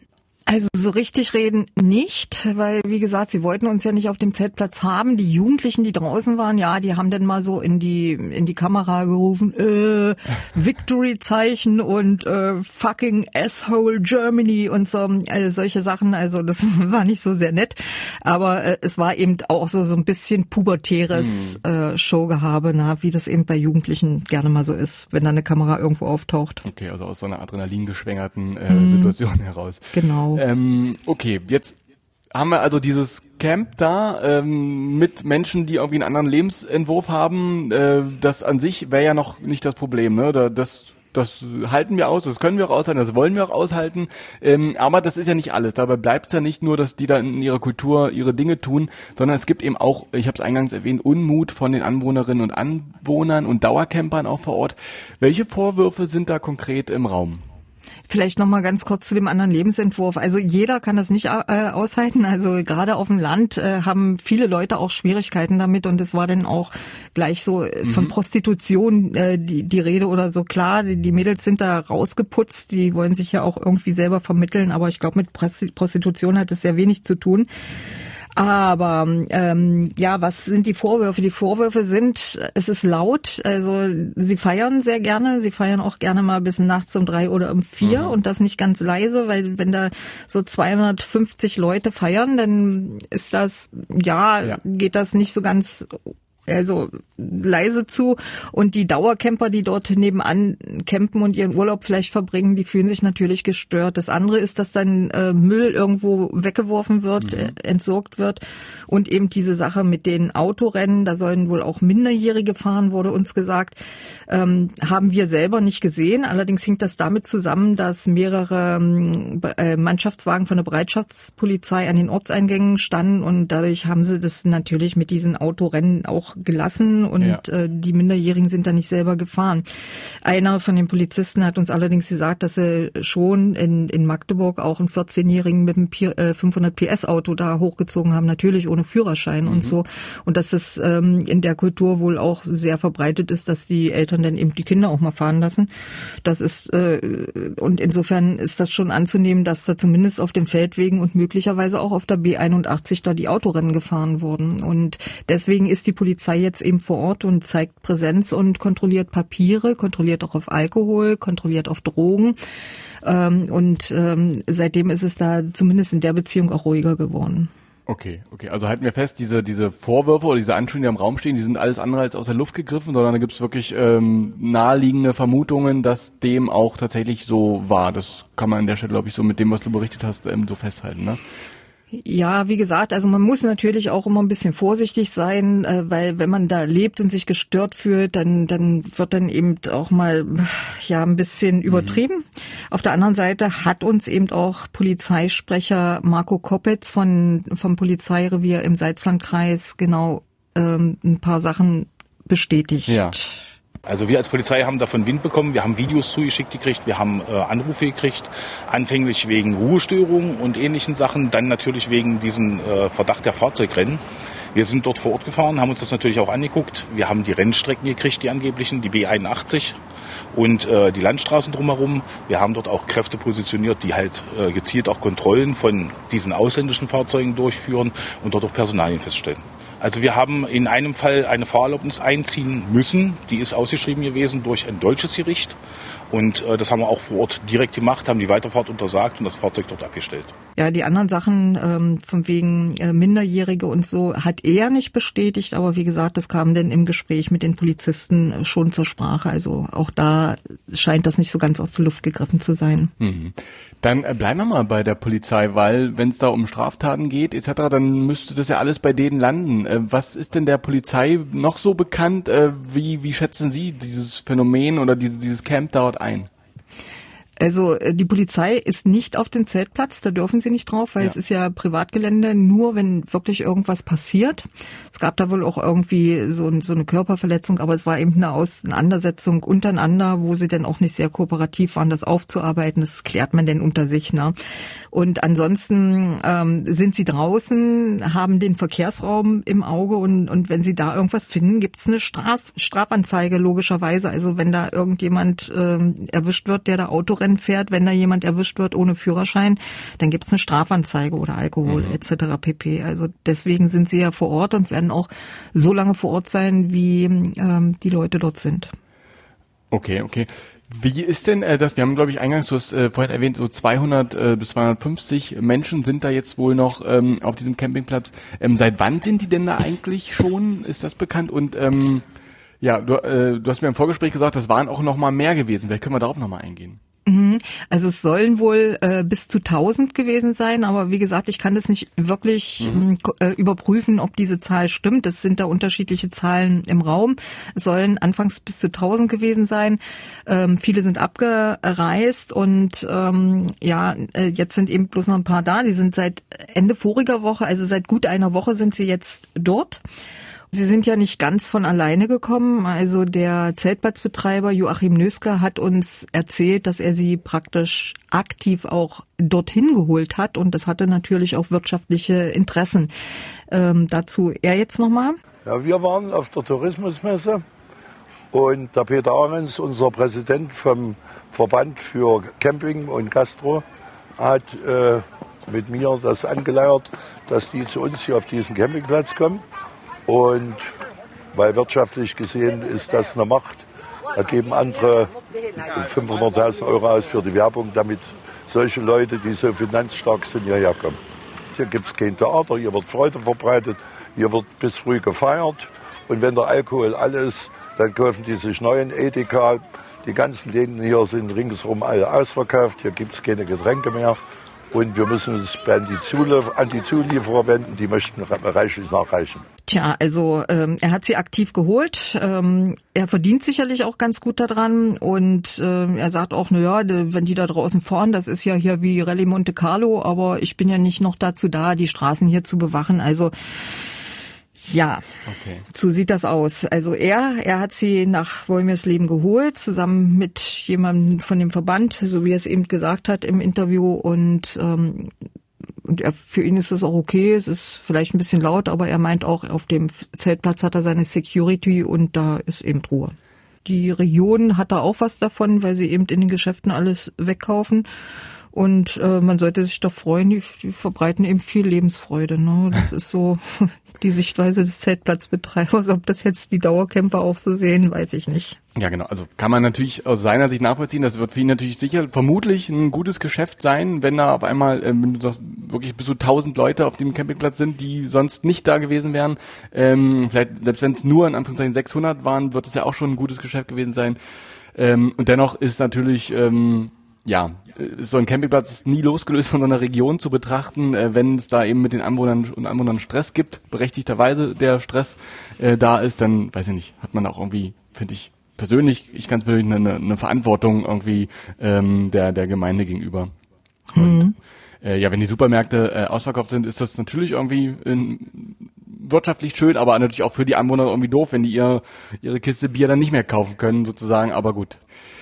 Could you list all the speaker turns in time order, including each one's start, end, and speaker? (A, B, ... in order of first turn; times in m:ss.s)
0:00.5-0:26.6 A
0:21.1-0:21.6 B
0:26.6-0:31.8 B
0:28.7-0:29.2 A
0:29.9-0:30.4 A
0:32.3-0:57.4 B
0:58.1-1:17.5 A
1:07.8-1:08.1 B
1:18.3-1:35.9 A
1:27.8-1:28.2 B
1:36.5-2:09.6 A
1:47.2-1:47.5 B
2:10.2-2:25.7 A
2:19.4-2:19.8 B
2:26.2-2:42.4 A
2:43.0-2:47.5 A
2:47.8-3:01.2 B
3:01.9-3:23.4 A
3:11.7-3:12.0 B
3:22.9-3:23.2 B
3:23.9-3:34.0 C
3:34.5-3:39.8 C
3:40.3-3:55.6 C
3:56.1-4:00.3 C
4:00.6-4:12.9 A
4:13.0-4:26.3 B
4:27.4-4:44.3 A
4:44.9-5:08.7 A
5:01.6-5:01.9 B
5:09.7-5:22.0 B
5:22.6-5:26.8 B
5:27.0-5:49.8 A
5:32.6-5:32.8 B
5:50.5-6:02.9 A
6:03.5-6:05.2 A
6:05.4-6:07.4 D
6:08.3-6:13.6 D
6:14.2-6:19.4 D
6:20.1-6:20.6 D
6:21.3-6:25.1 D
6:25.6-6:31.0 D
6:31.5-6:44.2 D
6:44.7-6:49.4 D
6:49.6-7:04.0 A
7:04.6-7:05.0 A
7:05.2-7:05.6 B
7:05.7-7:15.1 A
7:15.8-7:27.8 A
7:28.5-7:38.6 A
7:38.8-7:54.2 B
7:54.7-8:13.3 B
8:13.9-8:14.3 A
8:13.9-8:14.3 B
8:14.8-8:24.8 B